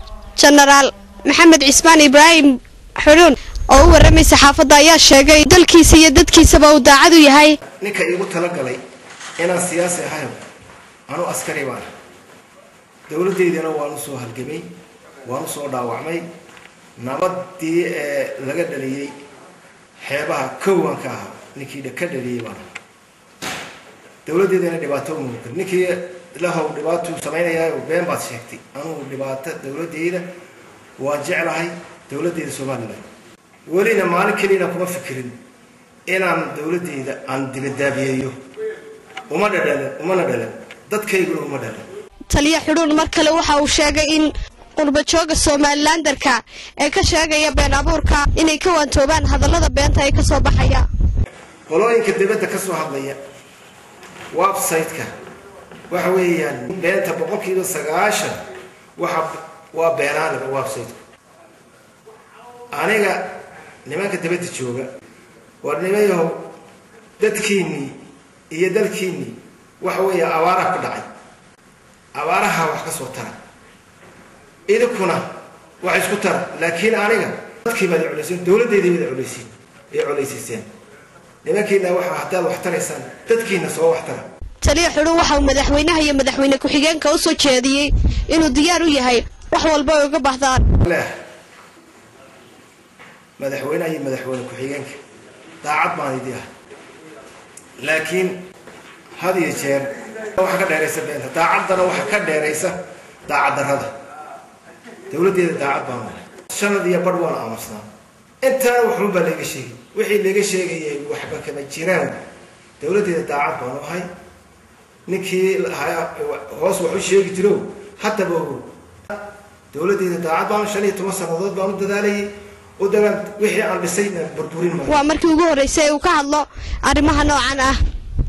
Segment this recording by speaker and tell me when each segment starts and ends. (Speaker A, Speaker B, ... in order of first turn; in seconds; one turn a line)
Speaker A: 0.4-7.6
Speaker B: 7.8-8.8
Speaker B: 9.4-10.4
Speaker B: 11.1-11.9
Speaker B: 13.1-14.7
Speaker B: 15.3-16.2
Speaker B: 17.0-19.1
Speaker B: 20.0-22.6
Speaker B: 24.2-30.3
Speaker B: 31.0-33.0
Speaker B: 33.7-35.4
Speaker B: 36.1-38.4
Speaker B: 39.3-41.9
Speaker A: 42.3-50.9
Speaker B: 51.7-53.2
Speaker B: 54.3-55.1
Speaker B: 55.9-58.4
Speaker B: 59.0-61.0
Speaker B: 62.7-64.9
Speaker B: 65.6-66.5
Speaker B: 67.2-68.0
Speaker B: 68.5-71.1
Speaker B: 72.2-73.4
Speaker B: 74.7-75.3
Speaker B: 75.8-80.7
Speaker B: 81.4-84.3
Speaker A: 84.6-90.7
Speaker B: 90.8-91.1
Speaker B: 93.4-95.0
Speaker B: 95.6-96.5
Speaker B: 97.8-98.5
Speaker B: 99.2-103.9
Speaker B: 105.1-107.8
Speaker B: 108.4-112.2
Speaker B: 112.8-114.1
Speaker B: 115.1-119.2
Speaker B: 119.7-125.0
Speaker A: 124.9-127.8